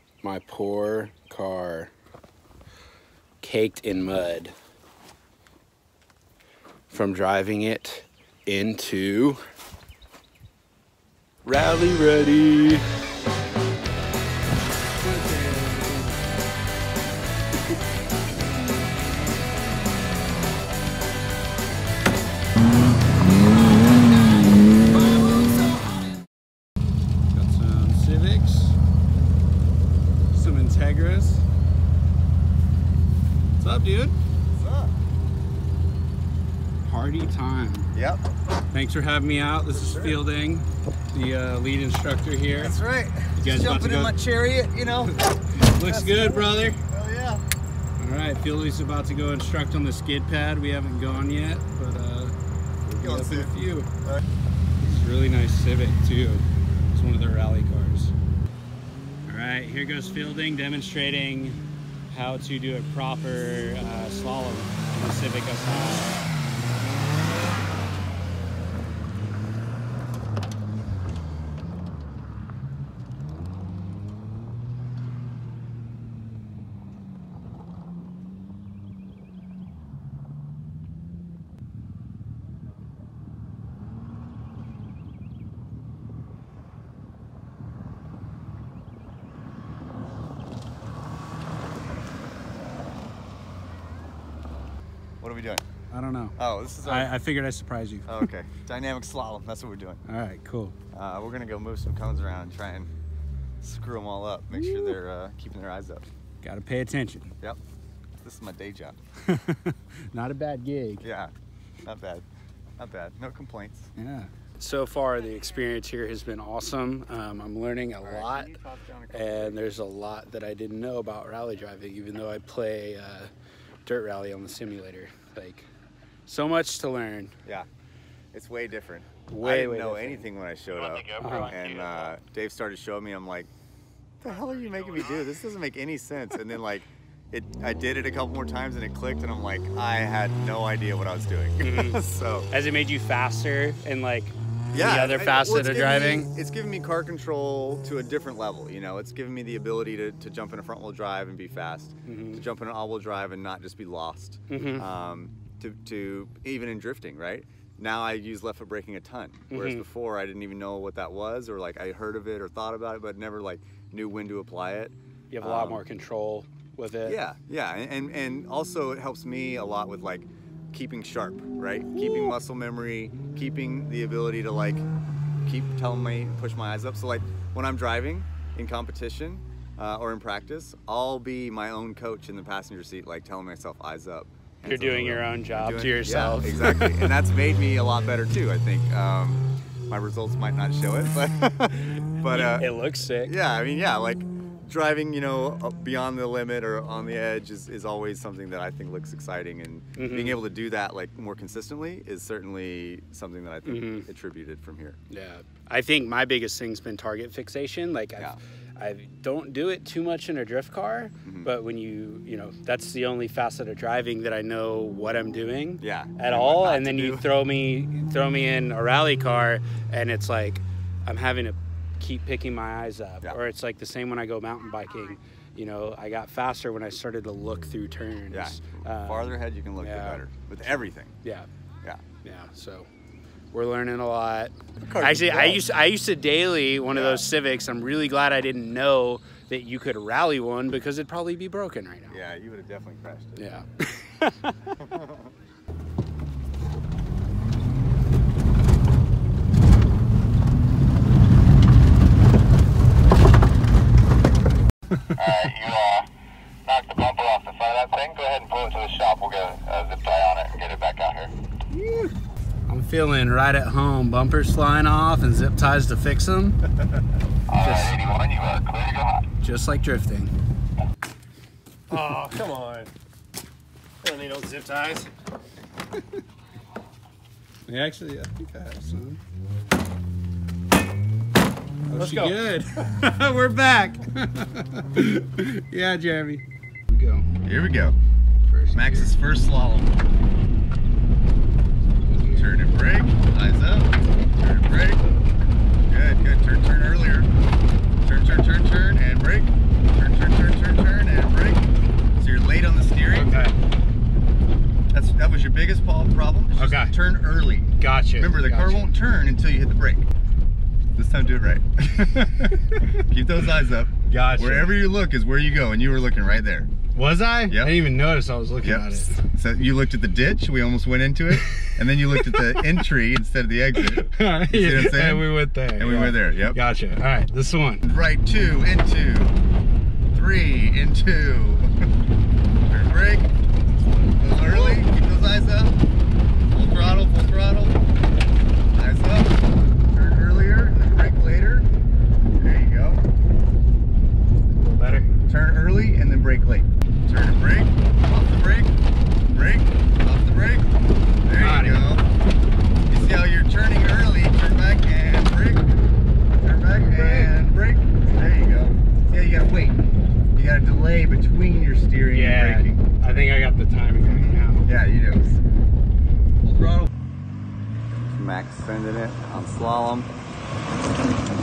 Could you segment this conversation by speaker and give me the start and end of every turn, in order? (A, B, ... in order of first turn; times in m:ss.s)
0:00.2-0:01.9 A
0:03.4-0:04.5 A
0:06.9-0:09.4 A
0:11.4-0:12.8 A
0:15.0-0:16.4 A
0:24.3-0:26.0 A
0:27.3-0:28.8 A
0:30.3-0:31.4 A
0:33.6-0:34.1 A
0:34.5-0:35.0 B
0:36.8-0:37.9 A
0:37.9-0:38.2 B
0:38.7-0:42.8 A
0:39.7-0:40.2 B
0:42.5-0:47.4 B
0:43.3-0:44.2 A
0:45.6-0:46.8 A
0:48.0-0:52.3 A
0:52.8-0:53.9 A
0:53.0-0:54.2 B
0:54.8-0:58.1 A
0:59.3-1:06.2 A
1:35.2-1:35.6 B
1:35.9-1:38.1 A
1:36.4-1:37.1 B
1:38.1-1:40.0 B
1:40.0-1:40.7 A
1:40.9-1:42.9 B
1:43.6-1:46.1 B
1:44.6-1:45.0 A
1:46.4-1:47.3 A
1:48.2-1:49.0 B
1:49.2-1:51.0 A
1:51.0-1:51.3 B
1:51.8-1:52.2 B
1:52.8-1:53.9 B
1:54.0-1:58.5 A
1:58.0-1:59.6 B
1:59.1-2:03.3 A
2:03.9-2:05.7 A
2:06.2-2:07.3 A
2:08.3-2:13.5 B
2:09.3-2:10.3 A
2:10.8-2:12.1 C
2:11.2-2:11.6 A
2:14.2-2:22.5 B
2:21.6-2:26.3 A
2:24.7-2:45.8 B
2:32.0-2:32.4 A
2:34.5-2:34.9 A
2:39.5-2:39.9 A
2:45.3-2:47.2 A
2:47.0-2:54.9 B
2:51.9-2:52.4 A
2:55.4-3:25.0 B
3:04.6-3:07.1 A
3:12.3-3:13.4 A
3:20.0-3:20.4 A
3:23.6-3:24.1 A
3:25.1-3:50.2 A
3:31.2-3:31.5 B
3:35.8-3:37.3 B
3:48.3-3:51.1 B
3:52.2-3:52.9 A
3:53.5-4:02.2 A
3:54.8-3:55.7 B
3:56.9-3:57.3 B
4:02.1-4:03.4 B
4:03.4-4:04.7 A
4:04.8-4:05.3 B
4:15.1-4:16.1 C
4:16.7-4:21.3 C
4:21.7-4:22.1 A
4:22.7-4:26.6 A
4:27.5-4:29.2 C
4:27.6-4:28.0 A
4:29.4-4:30.3 A
4:31.9-4:32.9 D
4:34.0-4:35.1 D
4:37.7-4:39.2 A
4:41.9-4:47.2 A
4:42.0-4:42.4 D
4:47.4-4:48.0 B
4:48.5-4:49.1 A
4:48.7-4:49.9 B
4:52.1-4:52.5 A
4:52.2-4:55.0 B
4:55.9-4:57.3 B
4:58.0-5:01.7 B
5:02.2-5:03.4 B
5:03.1-5:03.5 A
5:04.9-5:10.1 B
5:06.6-5:06.9 A
5:07.8-5:08.9 A
5:10.9-5:16.7 B
5:14.1-5:14.9 A
5:16.9-5:19.2 A
5:17.5-5:17.8 B
5:18.6-5:26.6 B
5:21.3-5:22.8 A
5:23.8-5:27.8 A
5:27.8-5:29.4 B
5:30.1-5:31.8 B
5:32.7-5:33.3 B
5:34.2-5:35.8 B
5:34.5-5:34.8 A
5:36.5-5:37.8 B
5:38.7-5:39.4 B
5:39.9-5:41.7 B
5:42.4-5:43.0 B
5:44.6-5:45.1 A
5:45.2-5:48.8 B
5:49.3-5:50.7 B
5:51.2-5:52.0 B
5:51.3-5:52.0 A
5:52.9-5:55.7 B
5:56.4-5:59.8 B
5:56.8-5:57.3 A
6:00.4-6:02.8 B
6:02.1-6:04.7 A
6:04.6-6:05.4 B
6:06.5-6:06.9 B
6:08.1-6:10.1 B